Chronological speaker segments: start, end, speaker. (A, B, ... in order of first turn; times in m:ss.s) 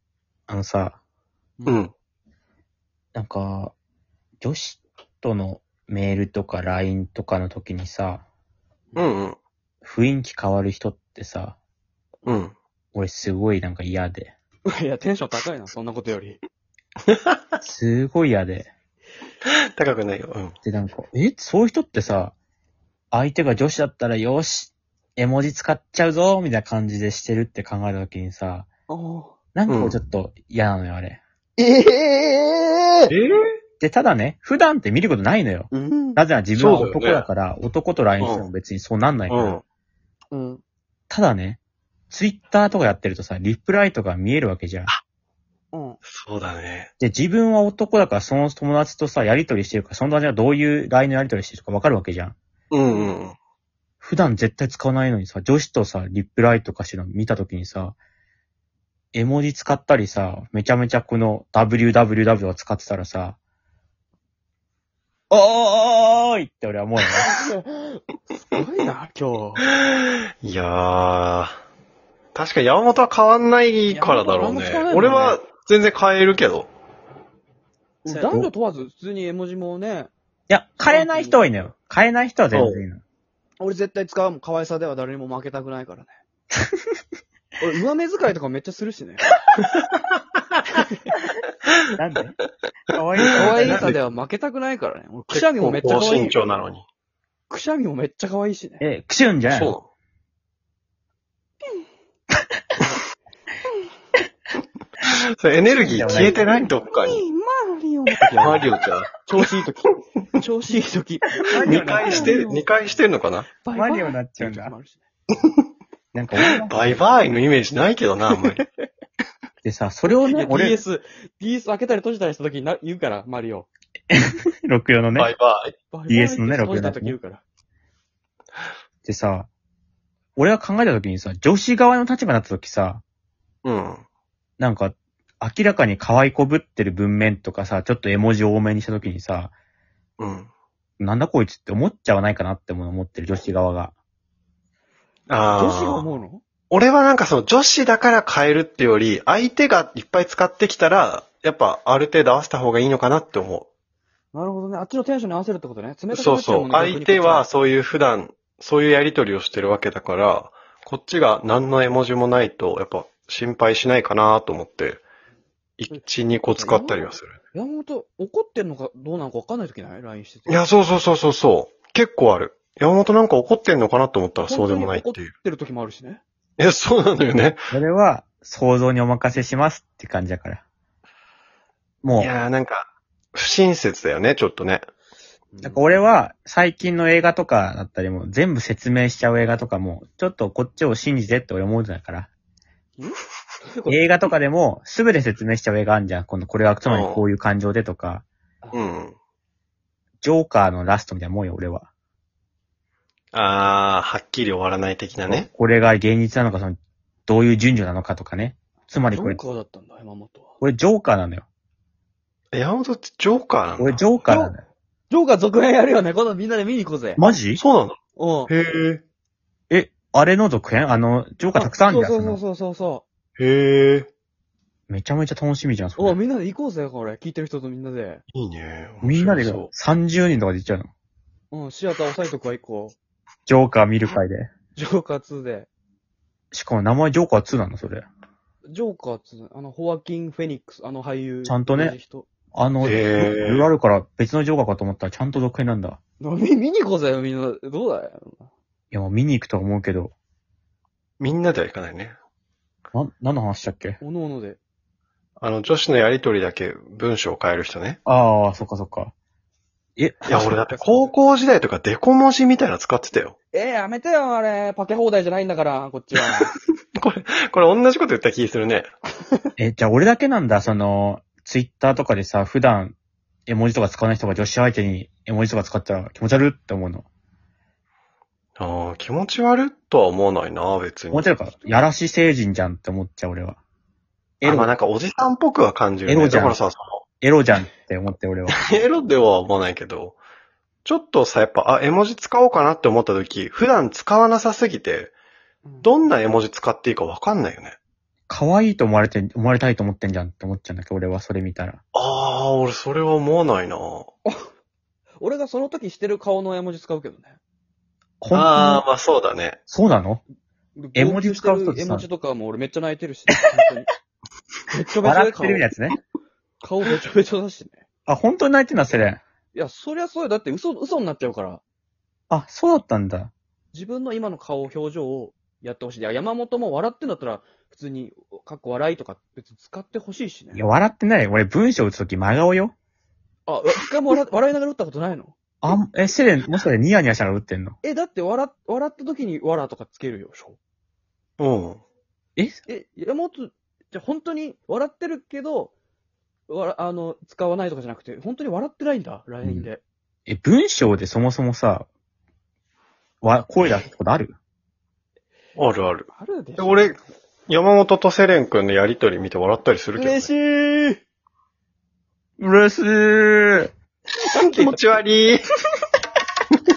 0:00.5-0:01.0 A
0:01.6-0:01.8 B
0:01.7-0:01.9 C
0:03.1-0:03.7 A
0:04.4-0:08.2 A
0:09.0-0:09.4 C
0:09.8-0:11.6 A
0:12.2-0:12.5 C
0:12.9-0:14.3 A
0:14.6-0:16.4 B
0:17.1-0:17.4 C
0:17.6-0:18.7 A
0:19.8-0:20.5 C
0:20.6-0:22.3 A
0:23.1-0:28.7 A
0:28.9-0:29.3 B
0:29.5-0:31.2 A
0:29.7-0:30.0 C
0:31.6-0:33.1 B
0:33.1-0:33.4 C
0:33.8-0:39.6 A
0:35.7-0:36.2 B
0:36.6-0:37.3 C
0:38.2-0:38.5 C
0:39.3-0:39.6 C
0:40.3-0:40.6 B
0:41.1-0:41.6 A
0:42.1-0:44.9 A
0:45.7-0:46.0 B
0:46.0-0:46.9 C
0:47.0-0:52.4 A
0:52.7-0:53.3 C
0:52.9-0:53.1 B
0:54.0-0:58.0 A
0:59.1-1:03.4 A
1:05.3-1:07.3 A
1:07.2-1:09.6 B
1:10.4-1:11.6 C
1:12.3-1:16.7 C
1:13.9-1:15.4 B
1:18.0-1:20.1 B
1:18.1-1:18.5 A
1:20.5-1:23.0 A
1:20.8-1:21.7 B
1:22.5-1:22.8 C
1:23.6-1:26.2 B
1:27.6-1:29.2 B
1:32.0-1:32.4 A
1:32.9-1:34.0 A
1:33.3-1:36.4 B
1:33.4-1:33.9 C
1:35.3-1:36.8 C
1:37.5-1:38.8 B
1:38.8-1:39.8 A
1:39.5-1:39.8 C
1:45.0-1:47.2 C
1:45.8-1:46.4 A
1:47.0-1:48.7 B
1:48.4-1:49.2 C
1:49.2-1:52.6 B
1:51.5-1:52.3 A
1:51.6-1:53.5 C
1:53.5-1:55.0 B
1:53.7-1:54.7 A
1:56.1-1:56.8 A
1:56.6-1:58.6 C
1:59.6-2:00.8 A
2:00.3-2:03.7 B
2:04.1-2:05.3 A
2:05.2-2:05.7 C
2:05.9-2:07.4 B
2:06.1-2:07.2 A
2:09.0-2:09.5 A
2:10.4-2:13.0 A
2:13.6-2:14.0 C
2:14.6-2:19.5 A
2:20.2-2:20.5 C
2:21.0-2:23.9 A
2:25.3-2:26.2 C
2:25.5-2:26.4 B
2:26.7-2:33.7 C
2:34.3-2:37.4 B
2:36.1-2:45.0 C
2:45.8-2:47.4 C
2:45.9-2:50.6 B
2:50.5-2:55.3 C
2:54.4-2:56.2 B
2:56.6-2:57.6 C
2:57.7-3:00.6 A
3:02.0-3:02.3 A
3:02.2-3:04.8 C
3:05.5-3:05.9 B
3:05.6-3:12.3 A
3:13.0-3:14.0 B
3:13.9-3:18.2 A
3:16.8-3:17.2 C
3:18.6-3:18.9 B
3:18.7-3:19.1 C
3:20.2-3:21.9 A
3:23.3-3:25.5 C
3:25.2-3:26.8 A
3:27.3-3:29.4 A
3:29.1-3:30.5 B
3:30.6-3:31.4 A
3:32.5-3:34.0 C
3:33.8-3:34.6 A
3:34.2-3:34.6 B
3:35.1-3:37.3 B
3:37.2-3:37.6 A
3:37.6-3:38.0 C
3:38.2-3:38.5 B
3:38.5-3:39.0 C
3:39.7-3:42.4 A
3:41.5-3:43.0 B
3:43.4-3:44.1 C
3:44.9-3:46.2 A
3:46.0-3:48.2 B
3:48.3-3:49.7 C
3:49.0-3:50.9 A
3:51.5-3:52.9 B
3:53.5-3:54.5 A
3:54.7-3:55.7 B
3:56.5-3:58.0 A
3:58.7-4:02.3 B
4:01.4-4:02.0 A
4:02.5-4:06.0 A
4:02.8-4:03.7 C
4:06.2-4:08.5 B
4:08.9-4:10.1 A
4:11.2-4:12.1 C
4:12.9-4:14.0 A
4:14.0-4:14.6 B
4:15.4-4:18.0 C
4:18.0-4:19.1 A
4:20.0-4:20.5 A
4:20.3-4:23.3 C
4:20.4-4:21.1 B
4:23.5-4:26.5 B
4:27.0-4:28.9 C
4:29.6-4:33.0 A
4:33.5-4:37.0 A
4:38.6-4:41.3 C
4:41.1-4:43.6 A
4:41.5-4:41.9 B
4:44.4-4:44.7 A
4:44.4-4:47.0 C
4:46.1-4:46.6 A
4:47.2-4:48.7 A
4:48.6-4:50.2 C
4:50.8-4:55.1 C
4:55.8-4:57.8 C
4:58.3-5:01.8 A
5:01.9-5:04.1 C
5:05.2-5:07.4 B
5:08.2-5:08.8 A
5:08.3-5:09.6 C
5:09.7-5:10.2 A
5:10.8-5:13.9 B
5:11.0-5:12.0 A
5:14.7-5:15.6 B
5:15.0-5:16.0 A
5:16.6-5:17.8 B
5:18.1-5:19.2 A
5:19.5-5:21.6 B
5:22.3-5:23.3 A
5:23.7-5:30.6 B
5:30.5-5:32.7 A
5:33.4-5:35.3 B
5:35.6-5:37.8 A
5:37.8-5:40.6 B
5:41.4-5:41.8 C
5:42.4-5:42.6 A
5:42.7-5:45.7 B
5:46.5-5:49.8 B
5:49.4-5:49.7 A
5:50.3-5:51.9 A
5:53.2-5:54.4 A
5:55.6-6:00.3 C
5:56.1-5:56.9 B
6:00.0-6:01.0 B
6:02.4-6:03.7 A
6:04.3-6:04.8 B
6:04.4-6:05.4 C